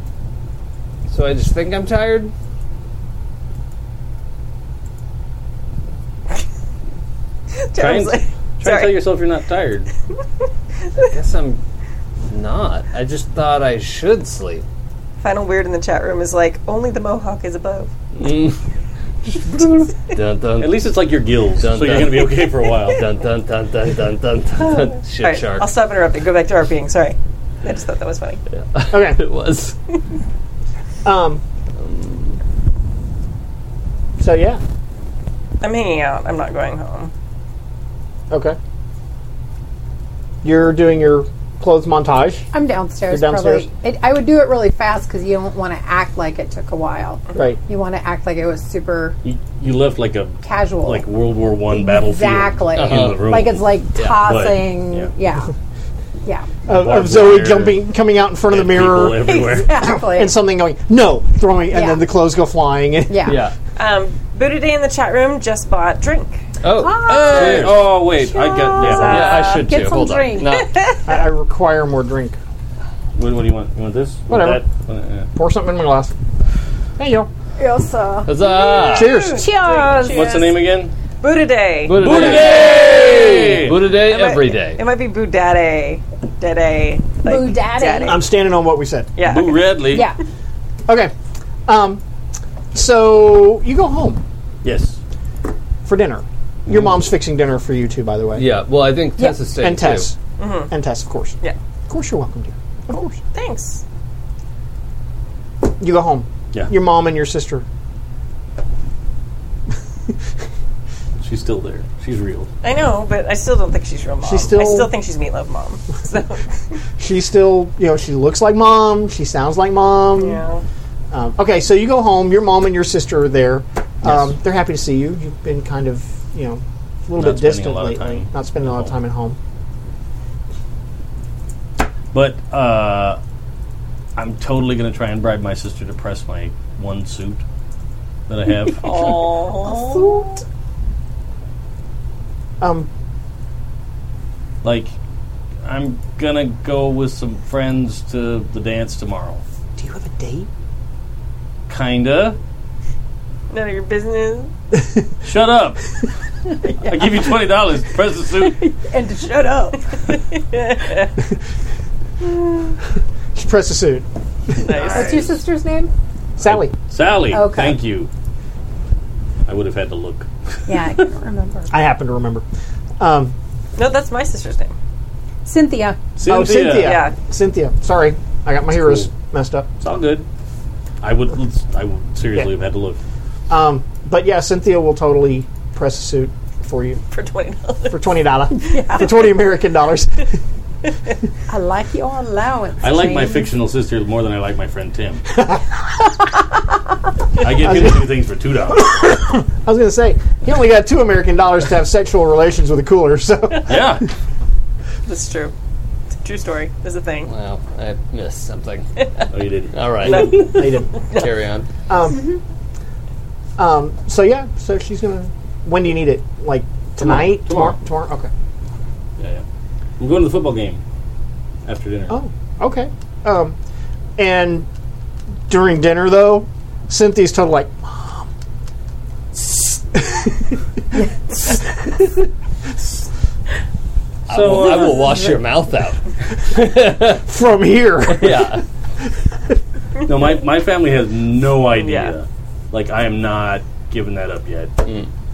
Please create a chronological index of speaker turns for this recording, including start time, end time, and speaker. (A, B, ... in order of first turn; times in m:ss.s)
0:01.1-0:02.3 A
0:07.6-0:09.1 B
0:07.8-0:09.9 C
0:11.1-0:11.6 A
0:12.3-0:14.6 A
0:15.2-0:17.9 B
0:18.2-0:18.6 A
0:19.2-0:21.0 A
0:20.6-0:23.0 C
0:21.6-0:25.7 A
0:24.6-0:28.4 B
0:28.6-0:29.8 A
0:28.9-0:29.2 D
0:31.0-0:31.4 D
0:31.8-0:32.4 A
0:34.2-0:34.6 D
0:35.6-0:37.1 B
0:38.3-0:38.6 D
0:40.4-0:42.5 D
0:42.5-0:49.2 E
0:43.1-0:43.7 D
0:49.2-0:55.1 C
0:50.4-0:51.1 E
0:51.7-0:55.5 E
0:52.8-0:53.3 A
0:54.0-0:54.2 A
0:56.7-1:03.3 D
0:56.7-0:57.8 C
0:58.5-0:59.8 C
0:59.3-1:00.3 E
1:01.7-1:02.0 E
1:03.1-1:03.4 E
1:03.2-1:03.5 A
1:03.8-1:06.4 B
1:06.6-1:07.9 A
1:06.7-1:07.7 E
1:07.0-1:09.4 C
1:08.3-1:09.7 B
1:08.5-1:10.6 E
1:08.9-1:10.7 A
1:10.6-1:11.0 B
1:11.1-1:12.4 D
1:13.2-1:15.3 C
1:14.3-1:14.6 D
1:15.4-1:16.1 D
1:17.0-1:17.3 D
1:17.6-1:20.4 E
1:18.3-1:19.2 A
1:18.9-1:20.7 B
1:18.9-1:19.5 D
1:20.0-1:20.9 C
1:21.2-1:22.6 B
1:21.9-1:24.8 A
1:21.9-1:23.9 C
1:23.9-1:28.2 B
1:27.2-1:28.2 E
1:28.0-1:29.1 D
1:29.2-1:29.8 B
1:29.2-1:30.1 C
1:29.9-1:30.2 E
1:30.9-1:31.1 D
1:31.7-1:32.0 D
1:32.7-1:34.2 D
1:34.6-1:35.0 C
1:35.8-1:38.5 D
1:38.4-1:40.1 A
1:39.6-1:40.2 D
1:40.4-1:40.7 B
1:40.7-1:41.4 D
1:41.9-1:43.2 D
1:43.3-1:43.8 B
1:45.8-1:47.7 D
1:51.2-1:52.5 C
1:52.6-1:56.5 B
1:54.2-1:54.9 D
1:57.0-2:00.4 D
2:00.1-2:00.6 B
2:01.1-2:09.4 D
2:04.0-2:04.3 C
2:07.2-2:08.9 C
2:12.1-2:13.2 C
2:14.2-2:17.4 C
2:18.3-2:19.4 C
2:18.8-2:20.3 B
2:19.6-2:20.4 E
2:22.6-2:22.9 D
2:24.6-2:24.9 C
2:25.6-2:29.4 C
2:29.8-2:30.5 D
2:31.7-2:32.4 C
2:33.5-2:34.5 B
2:35.2-2:35.8 C
2:36.8-2:38.6 C
2:38.4-2:39.8 E
2:40.1-2:41.1 B
2:43.4-2:44.7 D
2:44.6-2:45.2 B
2:44.7-2:45.4 C
2:44.9-2:45.9 E
2:46.4-2:46.7 D
2:46.4-2:48.1 C
2:47.3-2:47.8 E
2:49.5-2:50.9 C
2:50.7-2:51.7 E
2:51.7-2:52.4 D
2:53.0-2:53.3 D
2:53.8-2:54.7 B
2:55.5-2:56.0 E
2:56.2-2:57.0 C
2:56.2-2:59.7 D
2:56.8-2:57.2 B
2:59.8-3:00.3 C
3:01.0-3:03.0 C
3:03.5-3:07.0 D
3:07.1-3:08.2 B
3:07.9-3:10.4 D
3:08.6-3:09.1 E
3:11.5-3:13.5 E
3:12.8-3:15.2 C
3:15.4-3:15.6 D
3:17.4-3:18.9 C
3:17.6-3:18.1 D
3:18.7-3:24.0 D
3:23.6-3:24.1 C
3:25.1-3:25.5 B
3:26.2-3:27.3 B
3:27.3-3:28.9 A
3:29.3-3:30.6 C
3:29.7-3:30.5 A
3:30.0-3:30.9 D
3:30.1-3:31.3 B
3:31.1-3:31.7 A
3:31.9-3:32.3 D
3:33.6-3:38.3 D
3:37.0-3:37.8 C
3:39.2-3:39.4 C
3:40.0-3:40.8 C
3:41.7-3:42.2 C
3:42.1-3:43.6 D
3:44.2-3:44.7 D
3:45.5-3:48.3 D
3:49.3-3:50.6 D
3:51.4-3:51.7 D
3:54.3-3:57.2 A
3:54.3-3:55.2 C
3:57.1-3:58.6 D
3:58.1-3:58.6 A
4:00.1-4:04.9 C
4:01.7-4:02.1 B